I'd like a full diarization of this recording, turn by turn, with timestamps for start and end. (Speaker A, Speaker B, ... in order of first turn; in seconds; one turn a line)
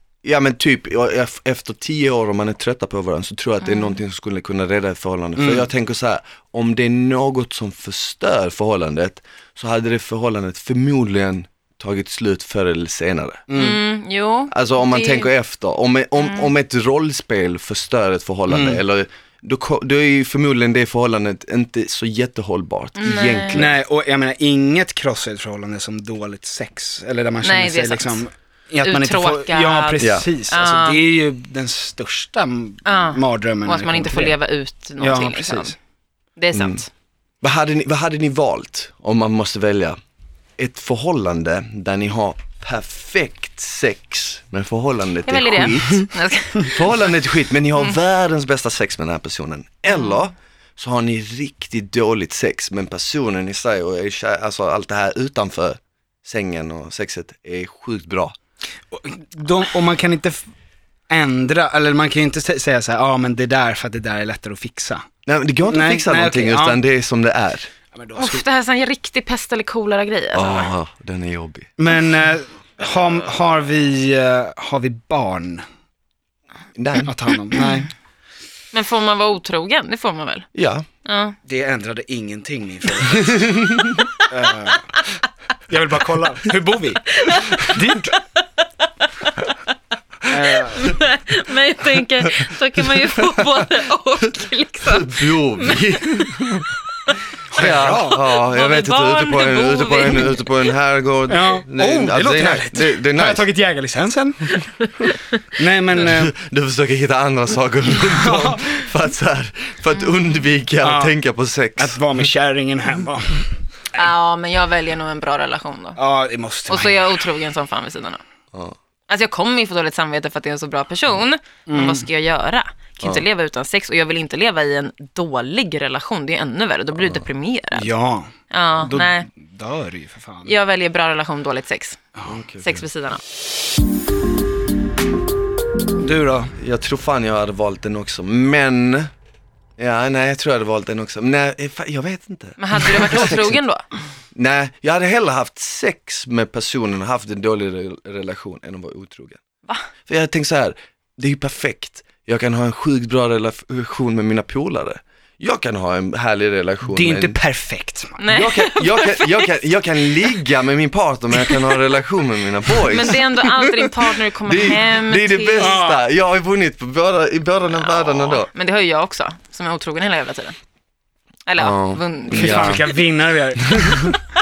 Speaker A: 0.2-13.5
Speaker B: 5.3-5.6
Speaker B: 13.5-13.8
Speaker C: 13.5-15.3
Speaker A: 14.5-23.7
Speaker B: 18.5-18.8
Speaker C: 23.0-23.6
Speaker B: 23.5-34.4
Speaker C: 27.4-28.2
Speaker C: 28.8-31.0
Speaker A: 30.0-30.2
Speaker C: 32.9-35.7
Speaker B: 35.0-35.7
Speaker C: 36.4-36.9
Speaker A: 36.5-36.8
Speaker A: 37.4-40.0
Speaker A: 40.6-46.1
Speaker C: 45.2-47.0
Speaker A: 46.6-58.3
Speaker B: 58.9-60.5
Speaker B: 61.1-65.1
Speaker A: 65.2-67.7
Speaker B: 65.7-66.8
Speaker B: 67.9-68.4
Speaker C: 68.2-70.7
Speaker A: 70.3-71.7
Speaker B: 71.8-75.6
Speaker A: 76.8-77.1
Speaker B: 77.0-77.9
Speaker C: 78.7-80.5
Speaker A: 80.5-80.9
Speaker C: 81.0-81.4
Speaker B: 81.5-83.5
Speaker A: 83.3-83.8
Speaker B: 84.3-84.9
Speaker B: 85.7-88.2
Speaker C: 87.2-88.2
Speaker B: 90.3-90.9
Speaker C: 90.5-96.3
Speaker A: 94.8-96.7
Speaker B: 97.5-98.2
Speaker A: 97.5-103.4
Speaker C: 98.1-100.6
Speaker B: 101.3-104.6
Speaker B: 105.5-106.3
Speaker A: 106.0-112.0
Speaker B: 108.1-108.7
Speaker B: 110.8-111.1
Speaker B: 111.8-113.5
Speaker C: 113.9-116.0
Speaker B: 116.0-117.1
Speaker C: 116.7-118.2
Speaker C: 119.1-127.9
Speaker B: 121.7-122.0
Speaker B: 127.7-130.5
Speaker C: 128.5-129.2
Speaker C: 130.4-132.0
Speaker A: 132.3-132.8
Speaker C: 132.6-133.2
Speaker B: 136.0-136.5
Speaker A: 136.6-139.1
Speaker A: 139.8-143.6
Speaker C: 142.6-143.8
Speaker A: 144.3-149.4
Speaker A: 150.1-157.4
Speaker B: 156.9-158.2
Speaker C: 158.2-159.5
Speaker A: 158.3-168.5
Speaker C: 162.8-165.8
Speaker B: 165.6-166.0
Speaker C: 167.8-170.6
Speaker C: 171.5-172.9
Speaker A: 171.6-172.8
Speaker B: 172.3-174.2